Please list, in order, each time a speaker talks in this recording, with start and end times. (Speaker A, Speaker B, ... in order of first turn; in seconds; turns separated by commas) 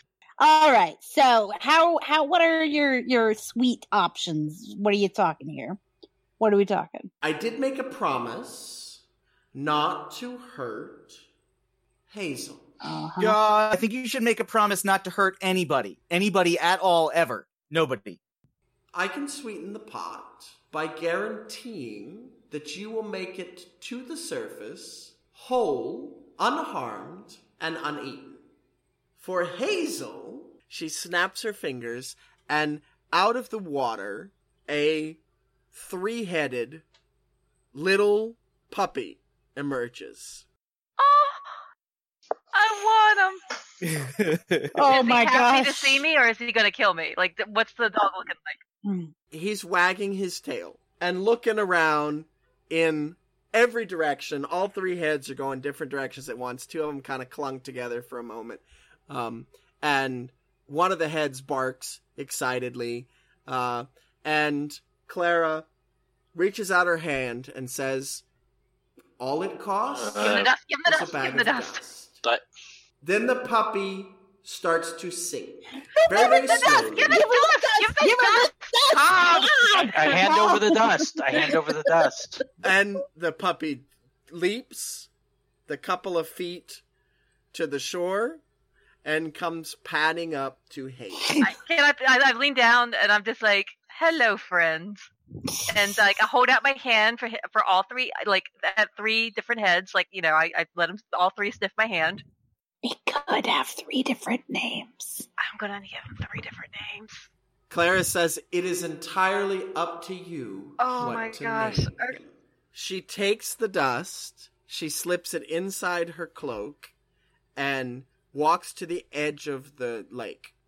Speaker A: 0.4-5.8, Speaker A: 6.4-7.1, Speaker B: 7.2-9.0, Speaker B: 9.5-11.2, Speaker B: 12.1-12.7, Speaker A: 12.8-13.4, Speaker C: 13.2-18.2, Speaker B: 18.9-28.4, Speaker B: 29.2-35.2, Speaker B: 35.7-36.9, Speaker B: 37.7-40.5, Speaker D: 41.0-41.6, Speaker D: 42.5-43.4, Speaker C: 43.8-44.9, Speaker A: 44.7-46.0, Speaker D: 44.9-48.6, Speaker A: 48.8-49.1, Speaker B: 49.3-65.7, Speaker B: 66.3-68.2, Speaker B: 69.2-72.2, Speaker E: 69.9-70.5, Speaker D: 70.2-71.8, Speaker B: 73.0-77.2, Speaker A: 75.9-82.1, Speaker D: 76.5-80.2, Speaker E: 79.7-82.4, Speaker B: 82.6-85.1, Speaker B: 85.7-86.8, Speaker B: 87.5-88.4, Speaker B: 89.0-91.3, Speaker A: 91.2-91.5, Speaker D: 91.4-95.1, Speaker D: 95.7-102.2, Speaker A: 102.8-105.3, Speaker D: 105.4-107.3, Speaker B: 107.7-116.9, Speaker D: 110.8-112.2, Speaker B: 117.6-120.5